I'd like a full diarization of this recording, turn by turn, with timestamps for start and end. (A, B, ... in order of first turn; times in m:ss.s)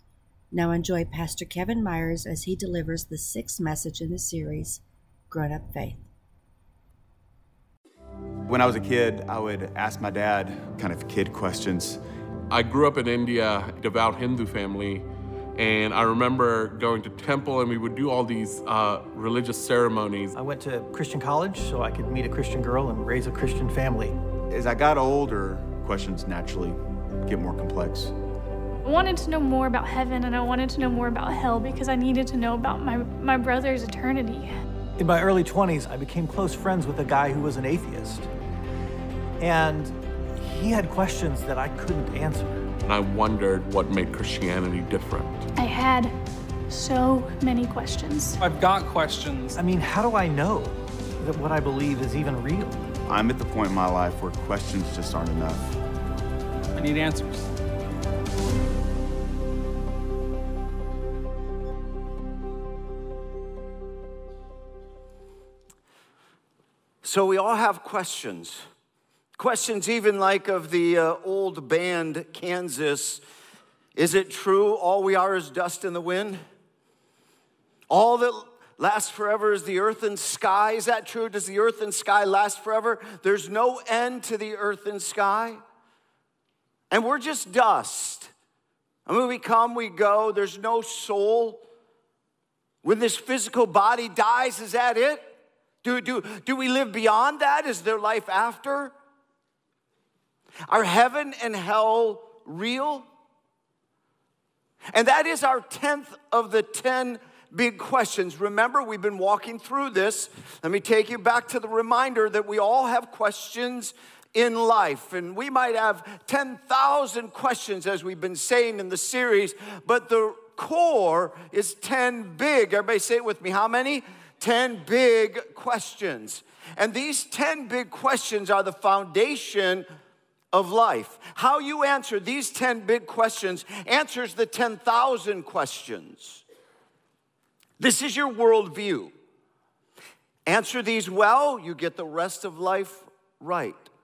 0:00.5-0:06.1 A
0:08.5-0:12.0 B
0:12.5-0:20.4 C
0:20.4-0:24.2 D
0:24.5-0:28.1 B
0:28.8-0:34.5 E
0:35.0-0:38.3 D
0:39.4-0:42.7 D
0:42.8-0:45.5 C
0:45.6-0:46.1 E
0:46.7-0:48.4 E
0:48.4-0:49.6 F
0:49.6-0:52.8 D
0:53.1-0:55.7 B
0:56.7-0:57.5 F
1:07.0-1:08.6 G
1:09.4-1:13.2 G
1:14.0-1:16.4 G
1:17.9-1:25.6 G
1:26.9-1:28.3 G
1:29.1-1:31.6 G
1:32.8-1:38.9 G
1:40.7-1:43.1 G
1:44.9-2:09.9 G
2:10.5-2:16.4 G
2:17.8-2:19.1 G
2:20.5-2:23.9 G